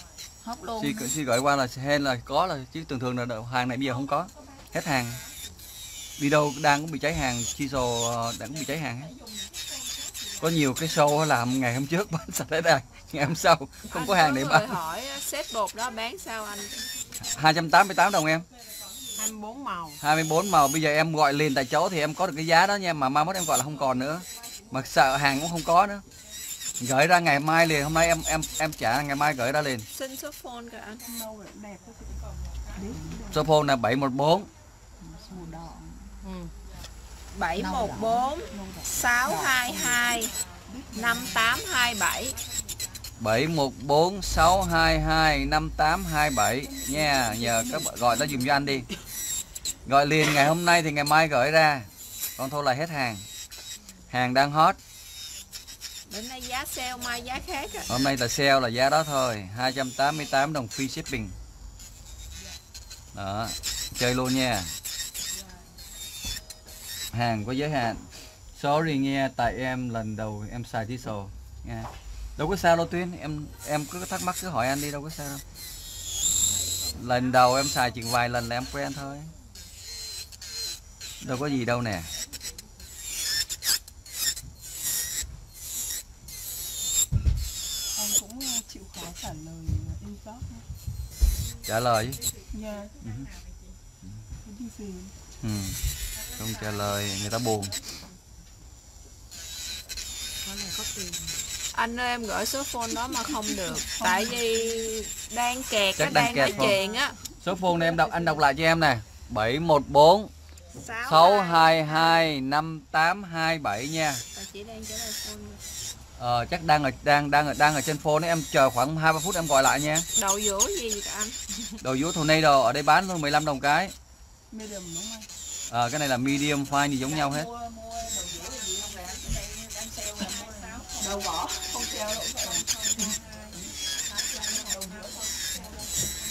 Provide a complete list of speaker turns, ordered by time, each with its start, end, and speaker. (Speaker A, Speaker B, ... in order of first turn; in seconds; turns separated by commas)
Speaker A: 0.4-1.1, Speaker B: 0.8-5.2, Speaker B: 6.2-9.2, Speaker B: 10.4-14.8, Speaker C: 13.9-16.9, Speaker B: 17.2-18.5, Speaker D: 19.1-20.0, Speaker B: 20.0-26.0, Speaker B: 26.8-29.9, Speaker C: 29.9-31.0, Speaker E: 31.0-32.2, Speaker E: 32.7-33.5, Speaker B: 33.3-34.5, Speaker A: 35.0-35.9, Speaker E: 35.3-35.8, Speaker D: 36.2-36.5, Speaker C: 37.3-40.3, Speaker A: 37.5-38.3, Speaker E: 38.5-41.4, Speaker C: 40.9-42.4, Speaker B: 43.2-48.9, Speaker E: 46.6-48.9, Speaker B: 49.9-53.2, Speaker B: 54.1-54.8, Speaker C: 56.1-57.9, Speaker B: 57.9-61.4, Speaker B: 63.1-64.7, Speaker B: 67.1-75.4, Speaker B: 76.9-79.3, Speaker B: 81.2-82.1, Speaker E: 87.9-90.7, Speaker B: 91.6-92.3, Speaker E: 92.5-93.0, Speaker B: 93.0-93.3, Speaker E: 94.4-95.1, Speaker B: 95.4-97.8, Speaker D: 100.4-101.3, Speaker C: 101.7-107.2, Speaker E: 103.4-104.4, Speaker B: 106.0-106.8, Speaker D: 106.5-107.0, Speaker B: 107.4-110.3, Speaker C: 110.7-112.3, Speaker B: 111.0-114.2, Speaker C: 114.3-115.6, Speaker B: 116.2-120.0, Speaker C: 120.1-121.4, Speaker B: 121.8-123.9, Speaker E: 124.5-125.3, Speaker B: 125.7-127.5, Speaker A: 127.0-130.9, Speaker E: 131.0-133.2, Speaker A: 133.5-135.5